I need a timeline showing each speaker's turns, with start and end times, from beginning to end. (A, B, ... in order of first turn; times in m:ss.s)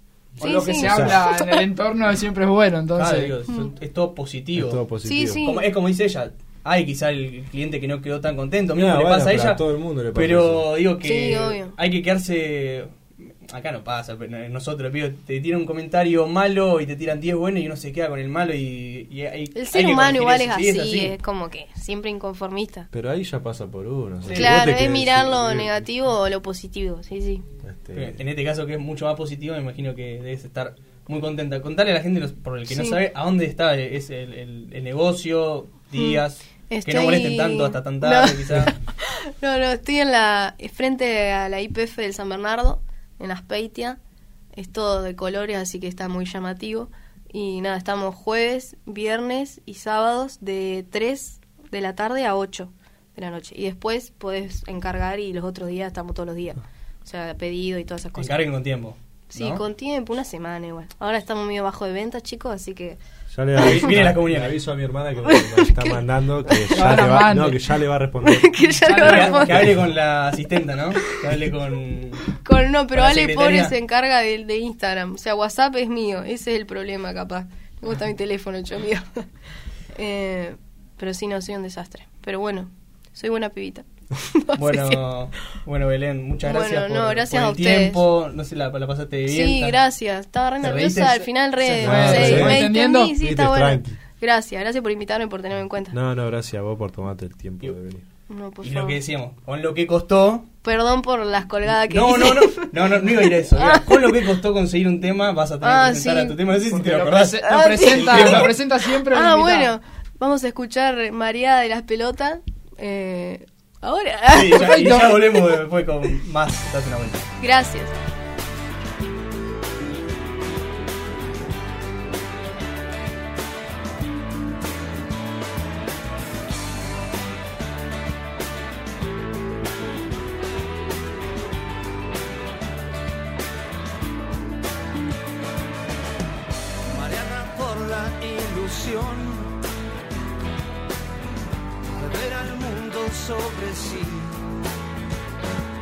0:00.4-0:03.4 A
0:00.4-0:01.6 B
0:00.8-0:01.2 C
0:02.9-0:04.8 D
0:04.5-0:05.4 C
0:05.0-0:05.7 B
0:05.3-0:09.6 D
0:08.8-0:10.6 C
0:10.1-0:21.1 D
0:11.0-0:11.7 B
0:19.5-0:22.9 B
0:22.9-0:25.7 C
0:24.2-0:24.6 D
0:24.3-0:27.4 B
0:27.6-0:28.2 C
0:27.9-0:38.8 D
0:32.7-0:33.0 B
0:36.0-0:44.0 B
0:44.5-0:58.4 B
0:58.2-0:59.6 D
0:59.3-1:03.0 B
1:03.3-1:08.6 C
1:03.6-1:04.6 D
1:05.2-1:06.9 B
1:06.7-1:07.6 A
1:08.2-1:09.7 B
1:08.8-1:09.5 A
1:09.0-1:12.3 D
1:12.4-1:19.2 B
1:12.9-1:13.7 D
1:19.9-1:25.0 B
1:24.6-1:29.8 D
1:26.4-1:28.0 B
1:29.3-1:36.0 B
1:30.6-1:31.3 D
1:31.6-1:33.1 A
1:31.8-1:32.7 C
1:33.2-1:34.0 C
1:35.9-1:38.0 C
1:38.3-1:39.0 B
1:38.6-1:40.5 D
1:40.6-1:44.3 B
1:41.8-1:48.5 D
1:45.6-1:46.4 B
1:46.7-1:49.7 A
1:47.4-1:55.0 B
1:54.3-1:57.3 D
1:54.5-1:55.2 A
1:57.4-1:57.9 B
2:16.9-2:19.5 E
2:21.9-2:24.6 E